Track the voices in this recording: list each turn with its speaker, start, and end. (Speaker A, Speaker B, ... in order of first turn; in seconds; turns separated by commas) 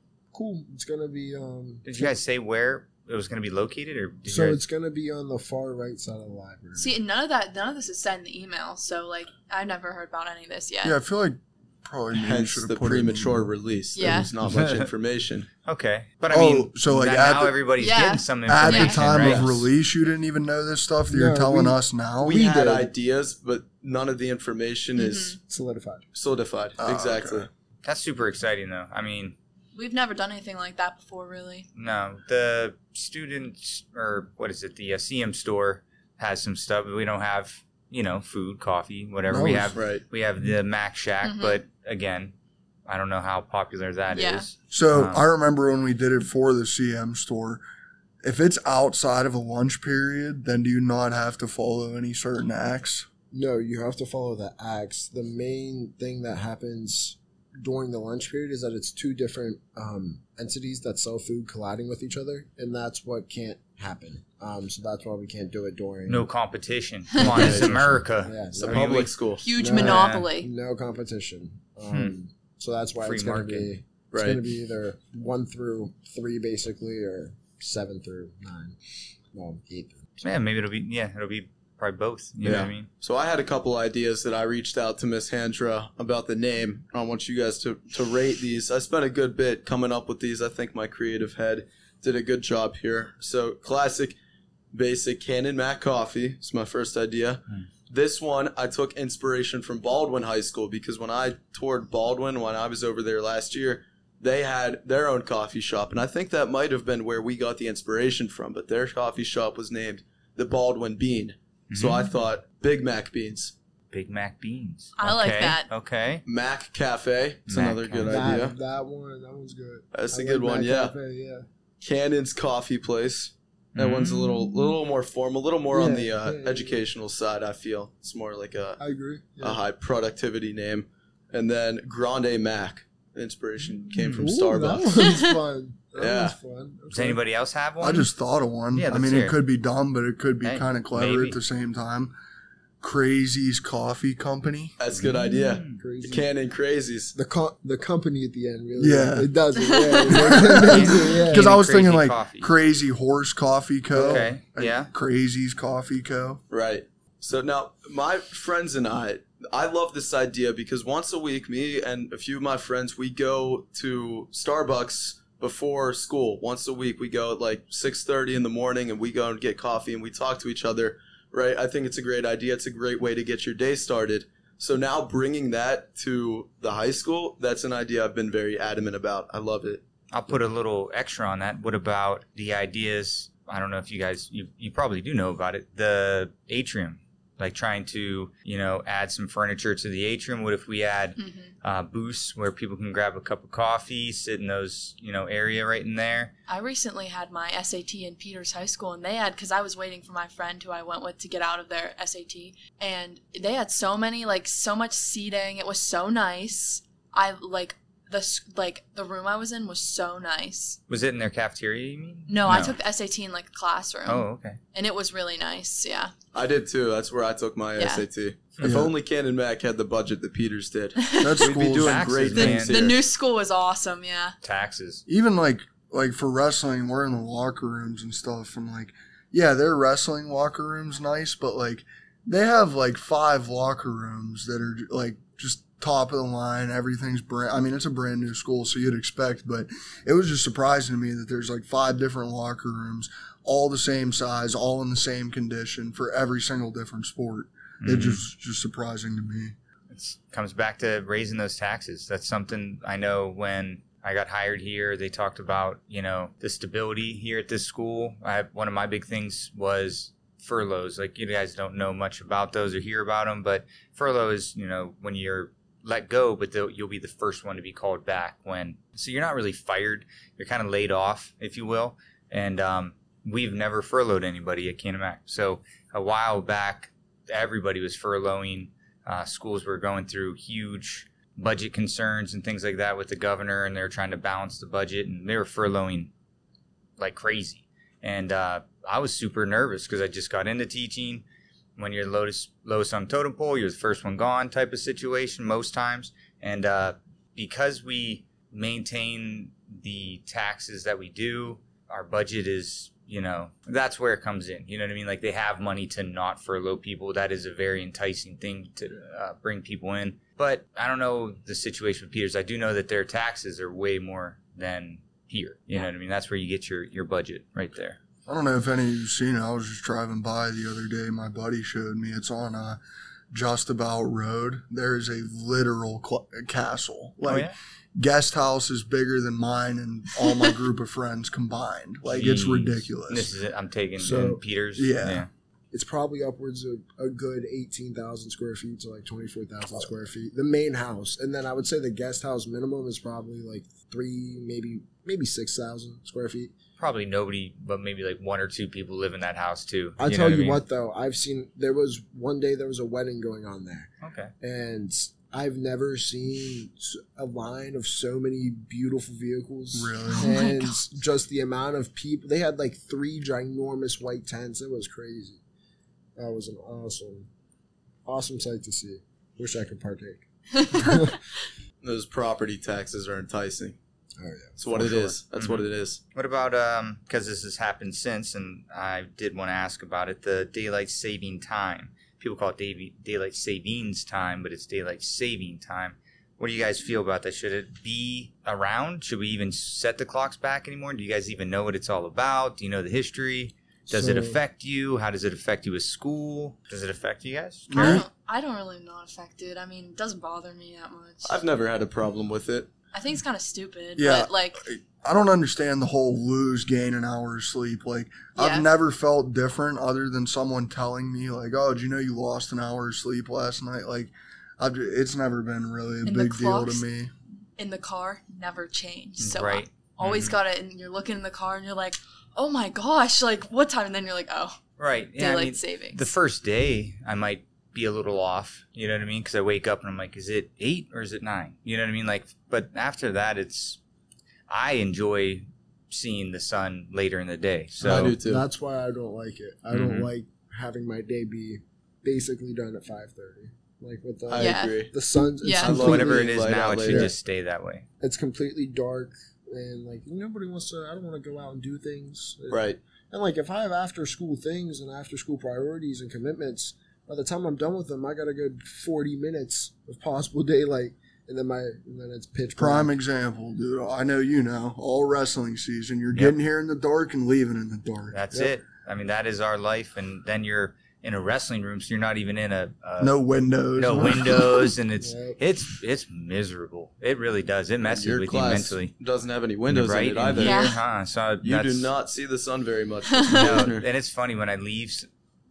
Speaker A: 0.3-2.2, Speaker B: 1.9-4.6, Speaker A: 4.3-7.0, Speaker C: 6.8-11.0, Speaker D: 10.8-13.5, Speaker E: 12.1-15.5, Speaker C: 13.9-14.3, Speaker B: 15.7-19.5, Speaker D: 16.3-17.6, Speaker C: 17.8-19.0, Speaker D: 18.5-22.5, Speaker E: 19.1-19.6, Speaker A: 21.1-22.9, Speaker E: 22.2-25.4, Speaker C: 24.9-25.4, Speaker A: 25.4-26.1, Speaker E: 26.1-27.5, Speaker D: 26.8-27.5, Speaker B: 27.8-29.4, Speaker C: 29.8-31.7, Speaker B: 31.8-42.3, Speaker D: 39.3-39.7, Speaker E: 39.7-40.0, Speaker C: 41.2-41.6, Speaker B: 42.9-45.3, Speaker C: 44.1-44.5, Speaker D: 44.7-47.6, Speaker D: 48.2-53.1, Speaker A: 53.3-66.3, Speaker B: 66.1-69.1, Speaker E: 67.2-67.8, Speaker A: 67.2-78.8, Speaker E: 68.6-69.5, Speaker C: 69.4-70.5, Speaker B: 69.8-70.3, Speaker B: 71.9-72.1, Speaker B: 73.0-73.7, Speaker E: 74.1-74.5, Speaker A: 79.3-80.0, Speaker B: 80.2-82.9, Speaker E: 82.4-94.2, Speaker E: 94.7-113.5, Speaker B: 111.7-112.1, Speaker B: 113.9-116.2, Speaker C: 115.0-115.7, Speaker E: 116.2-118.6, Speaker B: 117.5-118.3, Speaker A: 118.1-121.5, Speaker E: 119.9-120.9, Speaker E: 121.8-128.8, Speaker B: 123.8-124.7, Speaker A: 125.7-126.8, Speaker A: 128.8-129.6, Speaker E: 129.4-135.2, Speaker A: 134.1-137.2, Speaker E: 136.0-136.4, Speaker B: 136.9-138.1, Speaker D: 137.8-142.1, Speaker B: 138.7-139.4, Speaker B: 140.4-141.4, Speaker D: 142.8-144.8, Speaker E: 144.8-147.1, Speaker B: 144.9-145.8, Speaker A: 145.8-146.3, Speaker A: 147.1-151.5, Speaker D: 148.8-149.3, Speaker C: 149.6-150.0, Speaker D: 150.1-156.4, Speaker B: 150.3-152.5, Speaker A: 153.9-154.3, Speaker B: 154.0-154.9, Speaker E: 156.5-179.8, Speaker B: 180.1-196.3, Speaker C: 191.2-191.5, Speaker C: 196.5-210.8, Speaker B: 210.9-212.8, Speaker C: 212.3-216.1, Speaker B: 214.1-214.6, Speaker E: 216.3-223.0, Speaker C: 217.8-218.1, Speaker D: 218.6-218.9, Speaker C: 221.0-221.4, Speaker D: 221.2-222.5, Speaker B: 221.5-222.9, Speaker C: 222.3-224.4, Speaker B: 224.4-225.0, Speaker D: 225.1-249.6, Speaker B: 247.8-248.2, Speaker B: 249.9-286.1, Speaker B: 287.0-291.2, Speaker B: 291.8-318.0, Speaker D: 318.3-322.8, Speaker D: 323.3-333.3, Speaker B: 327.3-327.6, Speaker B: 332.1-335.3, Speaker A: 334.0-334.4, Speaker D: 334.8-335.3, Speaker A: 335.7-346.5, Speaker B: 346.8-350.6, Speaker A: 350.0-365.4, Speaker B: 354.0-354.3, Speaker D: 359.7-360.3, Speaker C: 360.2-360.8, Speaker A: 366.2-367.3, Speaker A: 368.1-371.2, Speaker E: 371.8-373.8, Speaker A: 374.2-375.2, Speaker E: 374.6-376.0, Speaker B: 375.4-398.0, Speaker A: 393.9-394.4, Speaker D: 397.7-398.1, Speaker C: 397.7-401.4, Speaker E: 401.2-402.7, Speaker C: 402.9-404.6, Speaker D: 404.0-417.1, Speaker C: 408.4-408.7, Speaker C: 416.1-416.8, Speaker C: 417.6-424.6, Speaker B: 419.2-420.4, Speaker B: 424.8-433.8, Speaker C: 425.2-426.1, Speaker B: 434.5-438.2, Speaker E: 437.8-438.4, Speaker A: 437.8-447.1, Speaker B: 439.7-440.1, Speaker E: 444.3-444.9, Speaker C: 444.4-444.8, Speaker C: 445.4-445.8, Speaker E: 445.6-447.1, Speaker B: 445.8-447.9, Speaker A: 448.0-462.9, Speaker E: 452.5-452.8, Speaker D: 462.6-468.2, Speaker B: 468.1-473.2, Speaker D: 473.0-474.7, Speaker B: 473.8-478.9, Speaker A: 475.0-475.4, Speaker E: 477.9-480.7, Speaker B: 479.7-481.9, Speaker C: 480.4-480.8, Speaker E: 481.4-483.9, Speaker C: 483.1-483.6, Speaker B: 483.3-485.1